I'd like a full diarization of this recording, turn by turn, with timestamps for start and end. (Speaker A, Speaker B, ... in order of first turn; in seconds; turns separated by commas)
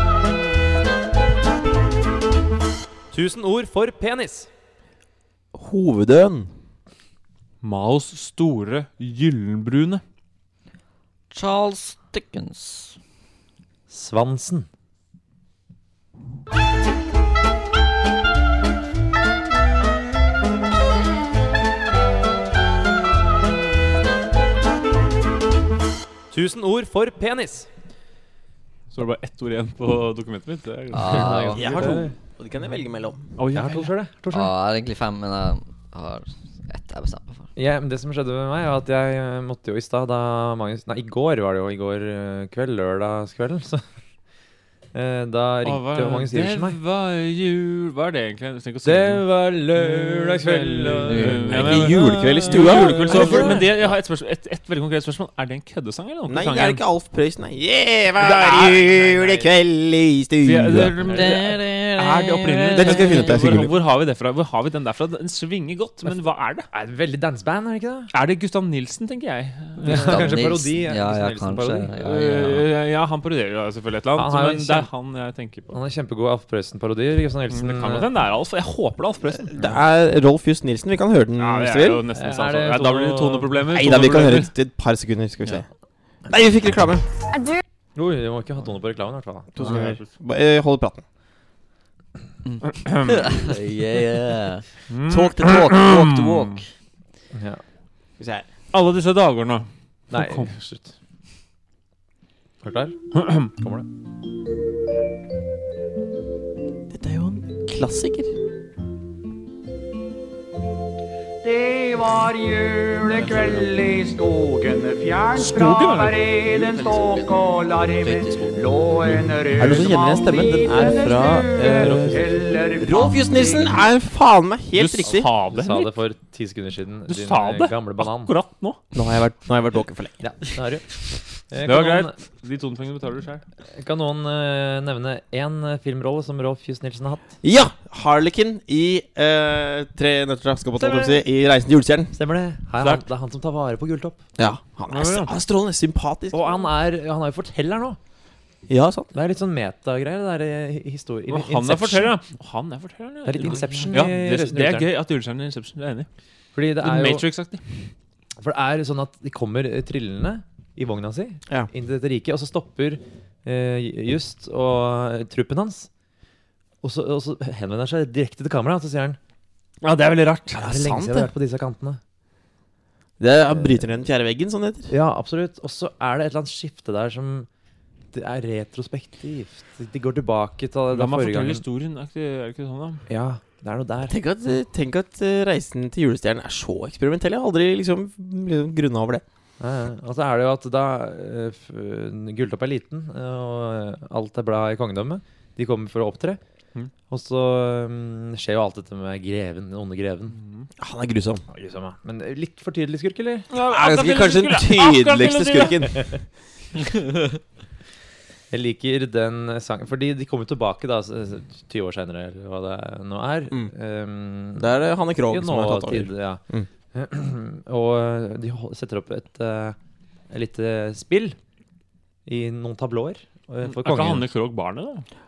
Speaker A: 3.1-4.5, Speaker B: 5.5-6.5, Speaker C: 7.6-10.0, Speaker D: 11.3-13.0, Speaker A: 13.9-14.7, Speaker A: 26.3-27.7, Speaker C: 28.9-32.0, Speaker D: 30.9-31.7, Speaker A: 31.0-32.1, Speaker B: 31.6-33.4, Speaker C: 33.4-33.9, Speaker A: 33.5-34.5, Speaker D: 34.3-37.5, Speaker A: 37.5-43.8, Speaker A: 44.9-46.8, Speaker C: 45.6-49.2, Speaker A: 48.8-53.8, Speaker C: 49.8-56.8, Speaker D: 51.1-52.0, Speaker B: 51.5-53.6, Speaker B: 56.3-60.9, Speaker A: 58.2-59.5, Speaker C: 58.2-58.8, Speaker C: 60.4-66.7, Speaker A: 61.0-61.4, Speaker D: 61.0-63.4, Speaker B: 62.7-63.7, Speaker A: 66.0-68.1, Speaker C: 68.1-70.5, Speaker A: 69.8-71.9, Speaker D: 69.8-72.7, Speaker C: 72.0-75.8, Speaker A: 74.2-74.9, Speaker A: 75.7-78.1, Speaker C: 77.5-79.8, Speaker B: 79.5-82.0, Speaker C: 81.4-84.5, Speaker A: 82.1-83.6, Speaker B: 83.7-85.7, Speaker B: 86.3-87.1, Speaker A: 88.0-89.8, Speaker B: 89.5-91.0, Speaker C: 89.6-90.1, Speaker D: 92.4-94.7, Speaker C: 92.7-93.5, Speaker C: 94.9-96.6, Speaker B: 95.1-96.1, Speaker D: 95.3-96.7, Speaker A: 97.3-97.6, Speaker B: 98.2-98.5, Speaker C: 98.7-100.5, Speaker A: 100.1-100.9, Speaker A: 102.6-103.9, Speaker C: 103.2-103.5, Speaker B: 106.9-108.4, Speaker E: 111.5-118.1, Speaker C: 113.1-113.7, Speaker D: 113.2-113.7, Speaker C: 115.3-116.6, Speaker D: 116.5-119.8, Speaker E: 118.6-121.8, Speaker B: 119.6-125.3, Speaker A: 121.7-122.4, Speaker E: 122.3-122.9, Speaker C: 124.8-125.9, Speaker A: 125.1-128.3, Speaker C: 127.1-128.8, Speaker B: 128.9-130.2, Speaker A: 130.2-132.2, Speaker C: 131.6-133.4, Speaker A: 133.7-137.3, Speaker B: 137.4-142.2, Speaker A: 142.1-144.2, Speaker B: 144.4-146.6, Speaker A: 144.9-145.3, Speaker A: 146.3-148.0, Speaker B: 148.7-149.1, Speaker A: 149.1-152.1, Speaker C: 151.3-156.1, Speaker A: 153.2-154.9, Speaker D: 153.5-153.9, Speaker A: 156.6-157.2, Speaker C: 156.8-157.6, Speaker A: 158.4-165.9, Speaker A: 166.8-169.2, Speaker C: 169.8-170.7, Speaker B: 170.5-171.3, Speaker A: 170.6-172.0, Speaker B: 173.2-174.9, Speaker A: 173.5-173.8, Speaker A: 174.9-177.5, Speaker A: 178.1-181.6, Speaker C: 180.9-183.0, Speaker A: 183.1-184.2, Speaker B: 184.1-189.2, Speaker A: 189.6-196.4, Speaker A: 197.1-200.4, Speaker C: 200.3-200.7, Speaker B: 200.8-201.4, Speaker A: 201.5-203.5, Speaker C: 203.5-205.9, Speaker B: 203.7-206.1, Speaker A: 208.5-214.7, Speaker B: 214.6-216.7, Speaker A: 215.3-216.4, Speaker A: 216.9-219.8, Speaker A: 220.3-221.4, Speaker A: 222.2-224.3, Speaker C: 223.6-225.1